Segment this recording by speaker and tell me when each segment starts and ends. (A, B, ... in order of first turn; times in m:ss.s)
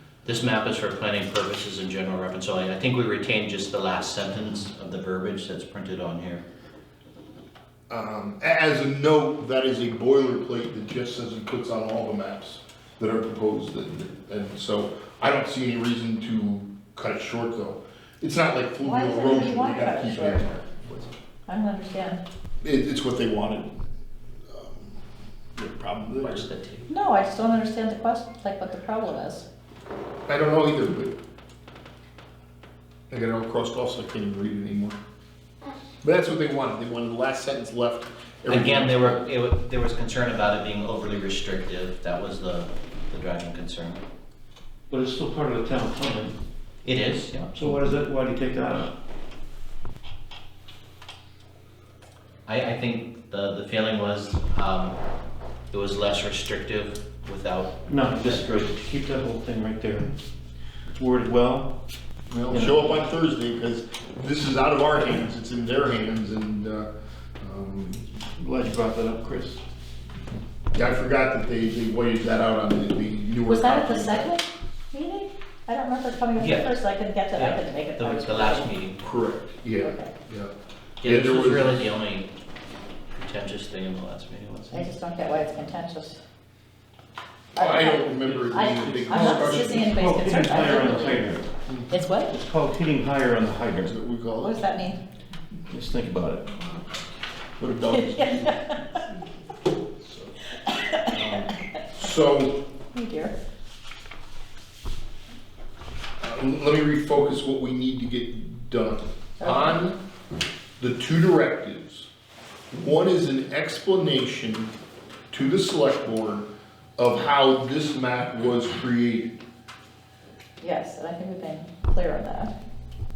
0:00.2-0:06.4 A
0:07.9-0:21.2 B
0:18.8-0:20.5 C
0:21.5-0:22.2 C
0:22.6-0:23.8 B
0:24.5-0:25.0 B
0:25.6-0:26.5 B
0:26.2-0:26.9 A
0:26.9-0:29.4 C
0:30.3-0:31.1 B
0:33.1-0:35.0 B
0:36.0-0:39.2 B
0:38.5-0:44.0 A
0:44.9-0:46.4 D
0:46.8-0:47.9 A
0:47.5-0:48.9 D
0:52.5-0:55.0 A
0:55.7-0:58.7 A
0:57.8-1:00.1 D
1:00.9-1:01.7 D
1:02.3-1:06.9 B
1:02.5-1:03.0 D
1:07.4-1:08.1 B
1:08.3-1:09.6 D
1:10.7-1:14.3 B
1:13.4-1:18.7 C
1:16.4-1:16.7 A
1:17.3-1:19.0 A
1:19.0-1:20.5 B
1:19.8-1:20.1 C
1:21.0-1:22.3 A
1:21.0-1:21.8 B
1:23.1-1:24.9 A
1:24.7-1:26.2 C
1:27.5-1:30.0 B
1:27.6-1:31.2 C
1:28.1-1:31.5 D
1:31.7-1:31.9 B
1:31.9-1:32.3 C
1:32.3-1:33.9 D
1:33.8-1:34.7 B
1:34.4-1:35.0 C
1:35.7-1:36.6 D
1:37.6-1:39.2 B
1:37.9-1:39.0 C
1:40.0-1:40.4 B
1:40.6-1:41.1 C
1:41.1-1:42.6 B
1:42.9-1:43.3 C
1:46.2-1:50.0 B
1:49.4-1:49.8 C
1:50.8-1:52.1 B
1:52.7-1:54.7 B
1:55.3-1:59.3 B
2:00.6-2:02.5 C